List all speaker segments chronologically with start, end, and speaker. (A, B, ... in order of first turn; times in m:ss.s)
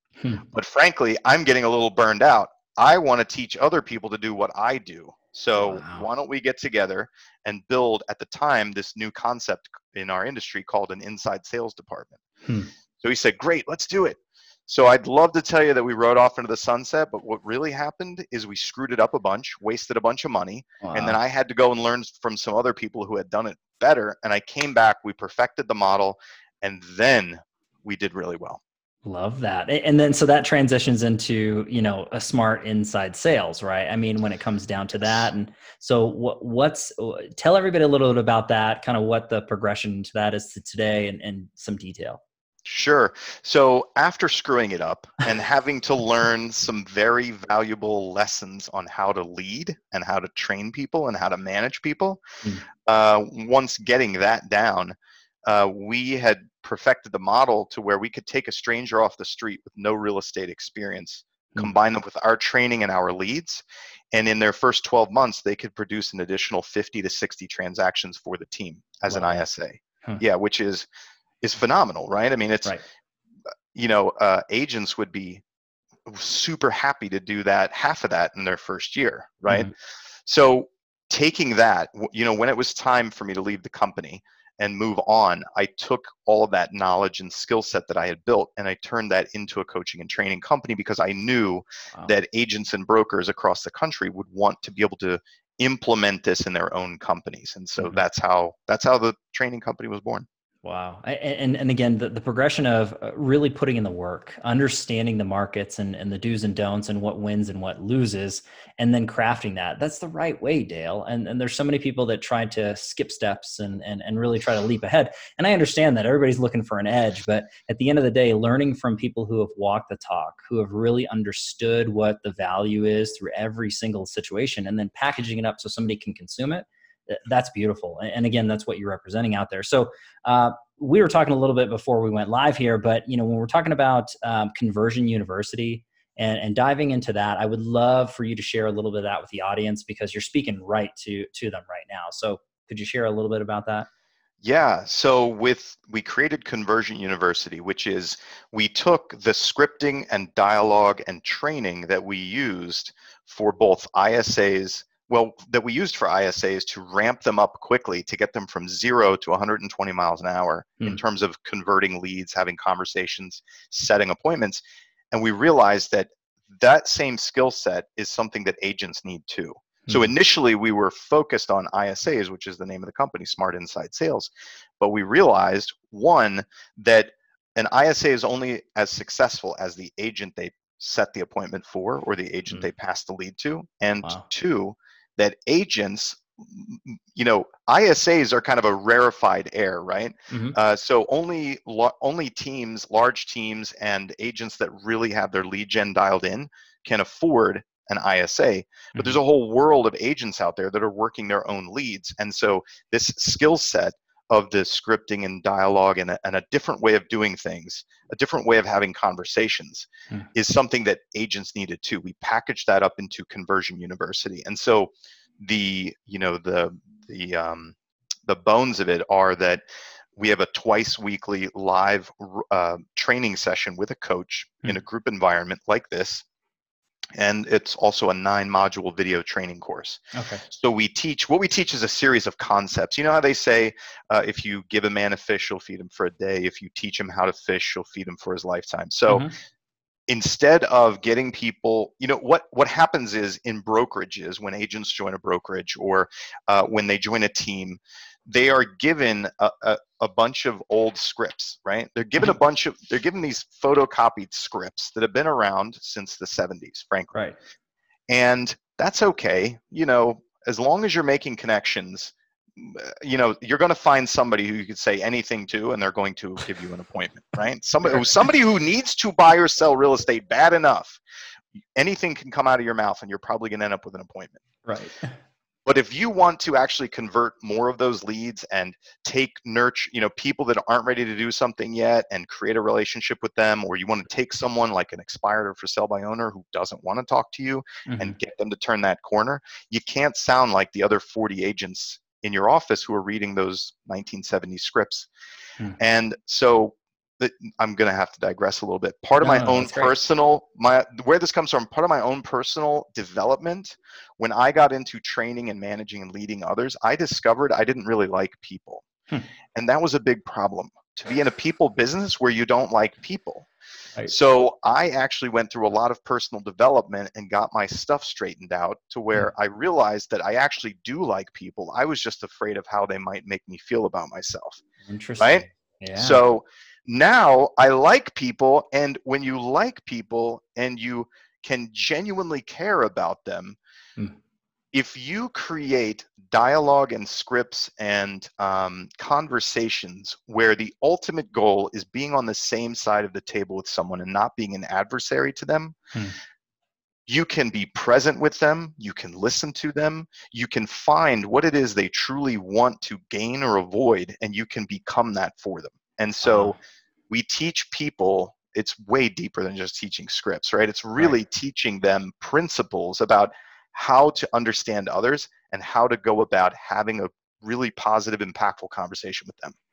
0:00.4-0:12.2 A
0:05.6-0:06.1 B
0:12.4-0:12.7 B
0:13.0-0:28.6 A
0:20.8-0:21.2 B
0:29.0-0:42.2 B
0:42.6-0:52.2 A
0:52.8-1:10.9 A
1:09.1-1:09.4 B
1:11.4-1:12.7 A
1:13.7-1:15.4 A
1:16.0-1:19.7 A
1:20.2-1:40.2 A
1:40.6-2:23.9 B
2:24.4-3:39.6 A
3:10.3-3:10.6 B
3:40.2-3:46.2 A
3:47.2-3:59.2 A
3:50.1-3:50.4 B
3:59.1-3:59.3 B
4:00.1-4:17.1 A
4:18.1-4:31.0 A
4:31.7-4:34.4 A
4:34.6-4:35.2 B
4:35.6-4:55.1 A
4:47.8-4:48.2 B
4:55.8-5:08.8 A
4:59.2-4:59.9 B
5:09.5-5:13.5 A
5:14.1-5:24.6 A
5:24.9-5:26.2 B
5:25.2-5:25.4 A
5:26.0-5:33.6 A
5:34.7-5:45.8 A
5:47.1-5:56.6 A
5:56.2-5:56.6 B
5:57.1-6:09.5 A